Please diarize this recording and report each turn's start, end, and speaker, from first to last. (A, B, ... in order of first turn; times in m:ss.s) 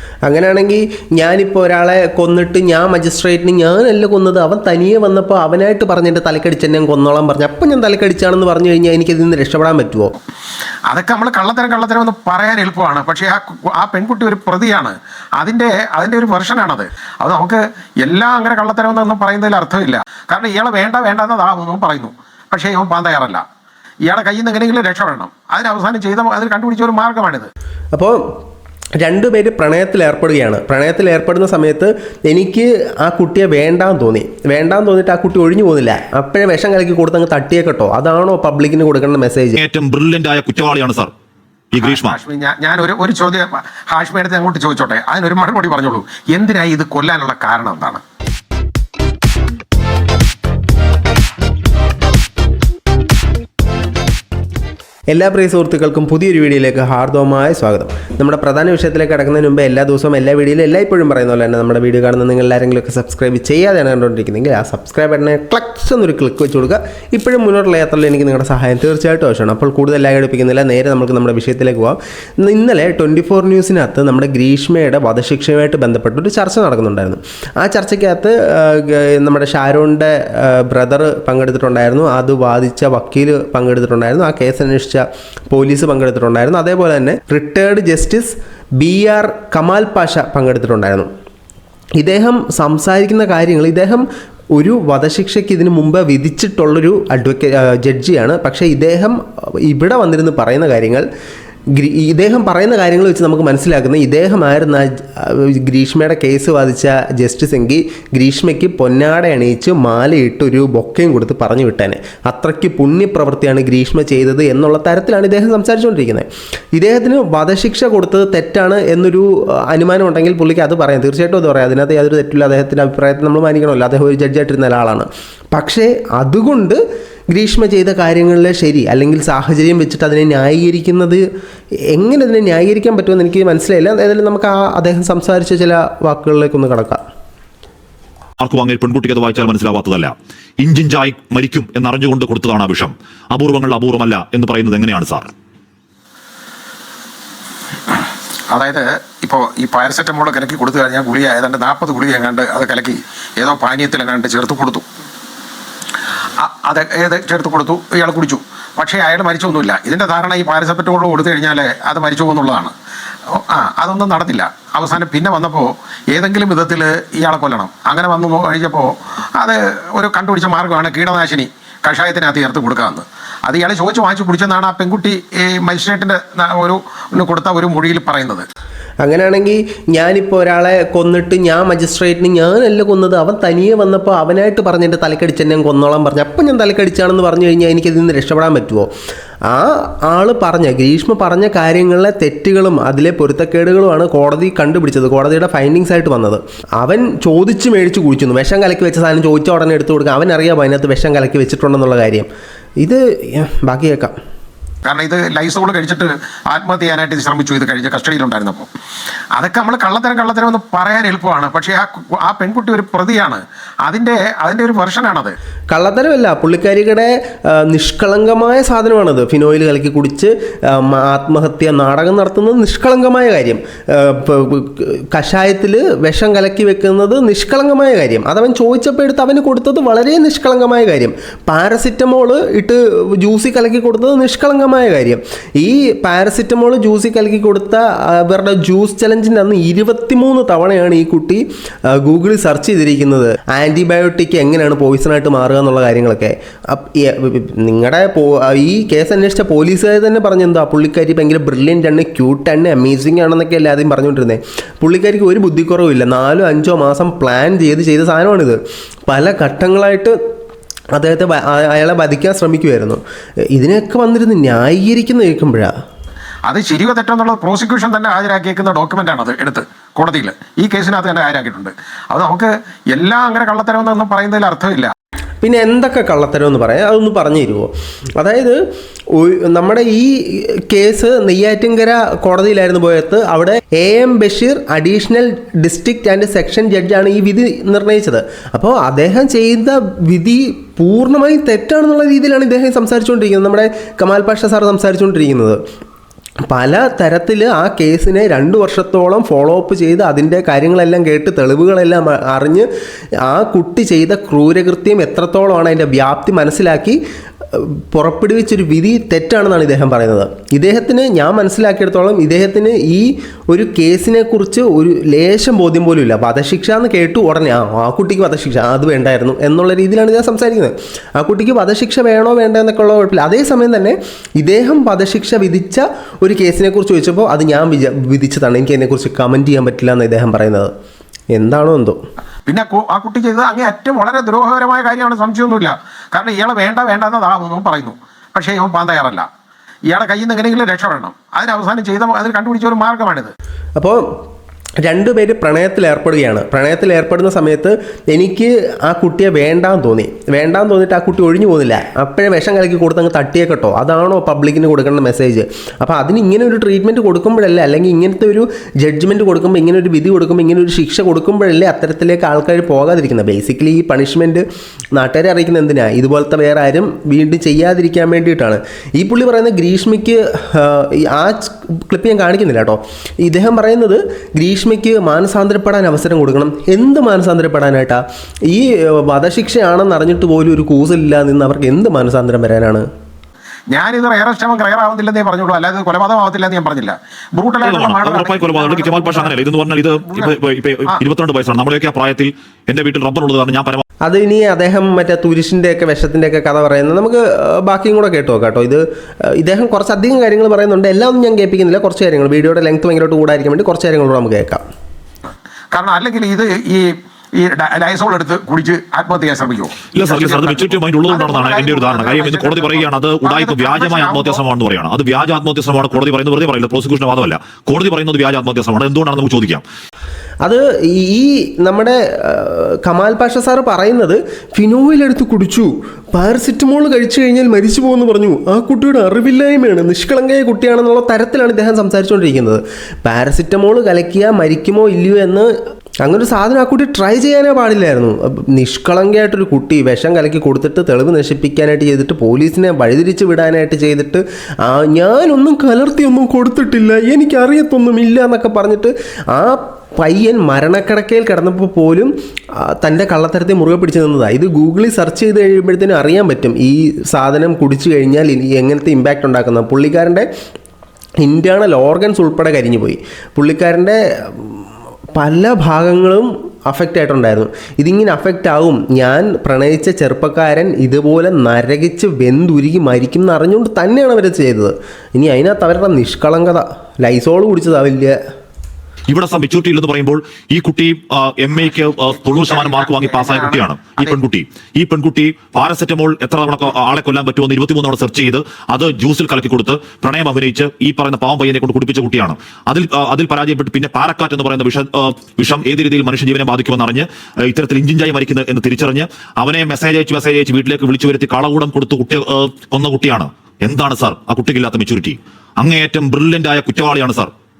0:00.2-0:10.1 A
0:10.9-0:23.4 B
0:24.1-0:27.5 B
0:27.9-0:28.2 A
0:29.0-0:39.6 A
0:39.6-0:41.1 C
0:41.7-0:42.2 C
0:41.8-0:48.0 B
0:55.1-1:31.1 A
1:32.0-1:34.0 A
1:34.5-1:41.0 A
1:41.7-2:06.8 A
2:07.3-2:11.2 A
2:11.9-2:17.0 A
2:18.4-2:25.3 C
2:28.5-2:34.8 B
2:36.4-2:42.7 B
2:43.3-2:58.4 B
2:59.0-3:08.9 A
3:09.5-3:22.3 A
3:22.8-3:24.1 A
3:24.8-3:28.7 B
3:29.3-3:35.3 B
3:35.7-4:18.6 A
4:19.1-4:20.1 A
4:21.0-4:23.0 A
4:23.5-4:25.7 A
4:26.5-4:34.9 B
4:35.4-4:38.6 A
4:39.1-4:55.6 A
4:56.5-5:02.7 A
5:03.2-5:07.0 A
5:07.5-5:30.7 A
5:31.3-5:32.0 A
5:32.5-5:39.2 B
5:39.9-5:43.3 B
5:44.8-6:04.4 A
6:05.0-6:22.8 A
6:23.7-6:29.4 B
6:27.6-6:33.8 C
6:30.0-6:31.0 B
6:34.0-6:44.6 A
6:45.7-6:54.4 B
6:49.9-6:59.6 C
7:00.4-7:15.5 A
7:16.0-7:32.1 A
7:32.6-7:40.2 A
7:41.2-7:44.6 A
7:45.2-7:58.2 A
7:59.1-8:27.3 C
8:02.2-8:04.2 B